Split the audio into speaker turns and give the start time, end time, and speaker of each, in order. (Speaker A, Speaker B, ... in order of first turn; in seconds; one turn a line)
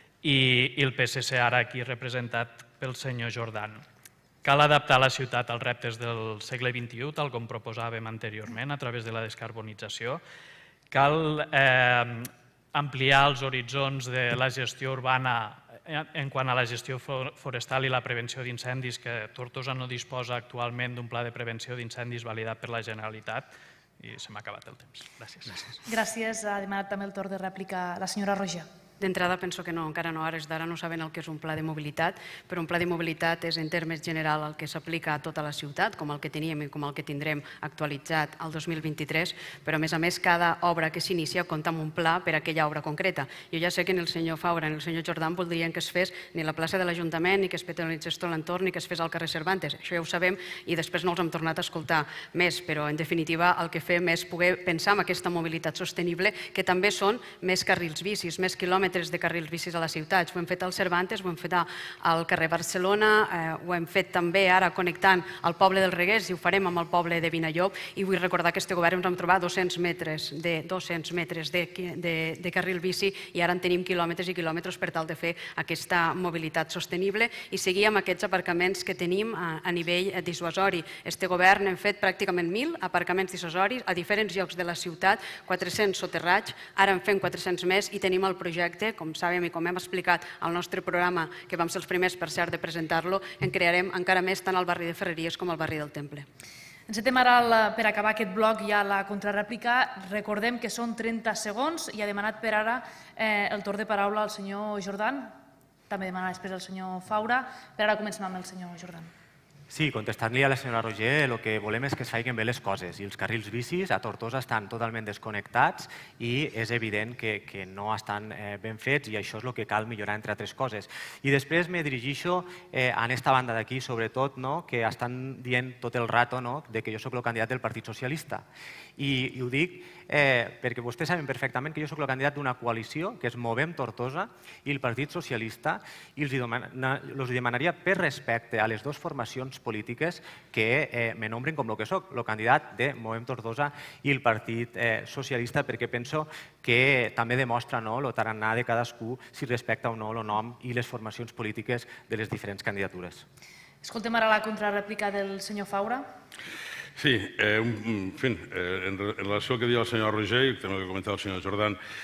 Speaker A: 0.2-3.8
Speaker A: 4.4-10.2
Speaker A: 10.9-23.5
Speaker A: 24.0-25.8
Speaker B: 25.9-28.7
Speaker C: 29.0-96.2
Speaker B: 96.9-105.3
Speaker B: 105.9-109.1
Speaker D: 109.7-128.4
Speaker D: 129.0-153.2
Speaker B: 153.8-156.1
Speaker E: 157.0-161.8